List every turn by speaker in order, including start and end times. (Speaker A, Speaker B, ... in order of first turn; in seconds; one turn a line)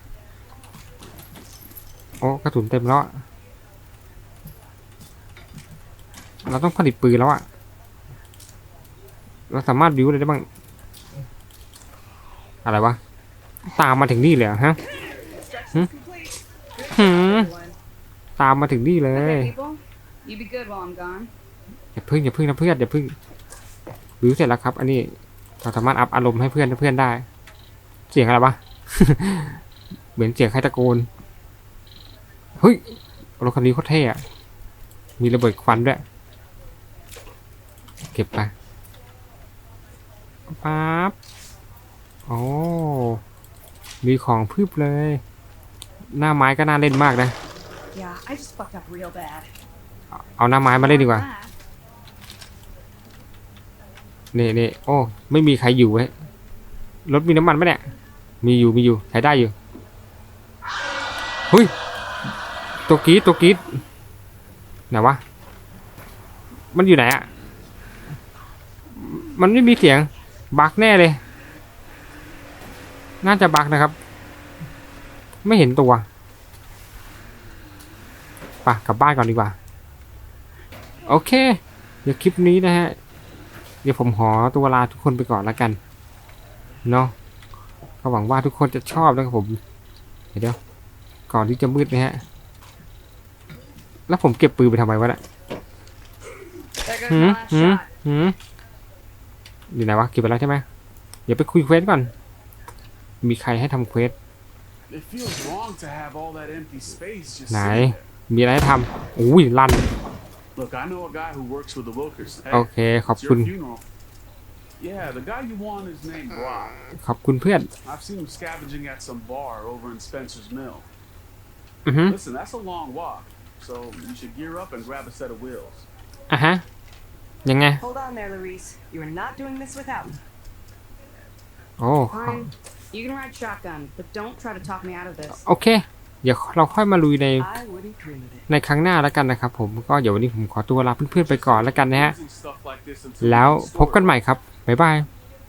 Speaker A: 2.2-3.2
Speaker A: 6.4-7.4
Speaker A: 9.5-10.4
Speaker A: 12.6-13.0
Speaker A: 13.7-14.8
Speaker B: 15.3-17.8
Speaker C: 15.4-15.9
Speaker A: 16.9-17.5
Speaker A: 18.4-19.5
Speaker B: 19.1-21.3
Speaker A: 21.9-23.1
Speaker A: 24.2-27.2
Speaker A: 28.1-29.6
Speaker A: 30.1-31.1
Speaker A: 32.6-32.8
Speaker A: 33.4-34.2
Speaker A: 35.2-36.0
Speaker A: 38.1-38.5
Speaker A: 40.5-41.1
Speaker A: 42.3-43.2
Speaker A: 44.0-45.2
Speaker A: 46.1-47.3
Speaker B: 47.9-49.5
Speaker A: 50.2-51.2
Speaker B: 50.7-51.5
Speaker A: 54.3-56.1
Speaker A: 57.1-57.8
Speaker A: 58.4-59.5
Speaker A: 62.9-63.6
Speaker A: 64.9-65.2
Speaker A: 66.7-67.3
Speaker A: 68.9-71.2
Speaker A: 73.2-73.9
Speaker A: 75.4-76.0
Speaker A: 78.6-79.5
Speaker A: 81.0-83.0
Speaker A: 83.8-85.8
Speaker A: 86.8-87.1
Speaker A: 88.0-89.6
Speaker A: 91.3-92.2
Speaker A: 94.1-95.2
Speaker B: 96.8-97.9
Speaker A: 97.1-98.3
Speaker A: 99.7-100.6
Speaker A: 101.3-102.1
Speaker A: 103.2-104.1
Speaker D: 104.9-108.1
Speaker A: 107.5-109.9
Speaker D: 110.5-113.8
Speaker A: 112.5-113.5
Speaker D: 114.8-116.8
Speaker A: 116.7-117.7
Speaker D: 117.8-120.9
Speaker A: 121.8-122.2
Speaker D: 122.0-125.9
Speaker A: 126.3-126.6
Speaker A: 127.4-127.8
Speaker C: 127.8-130.2
Speaker A: 131.8-132.5
Speaker B: 132.1-135.4
Speaker A: 135.4-137.5
Speaker C: 137.4-138.4
Speaker A: 138.5-142.2
Speaker D: 141.1-144.2
Speaker A: 143.2-145.1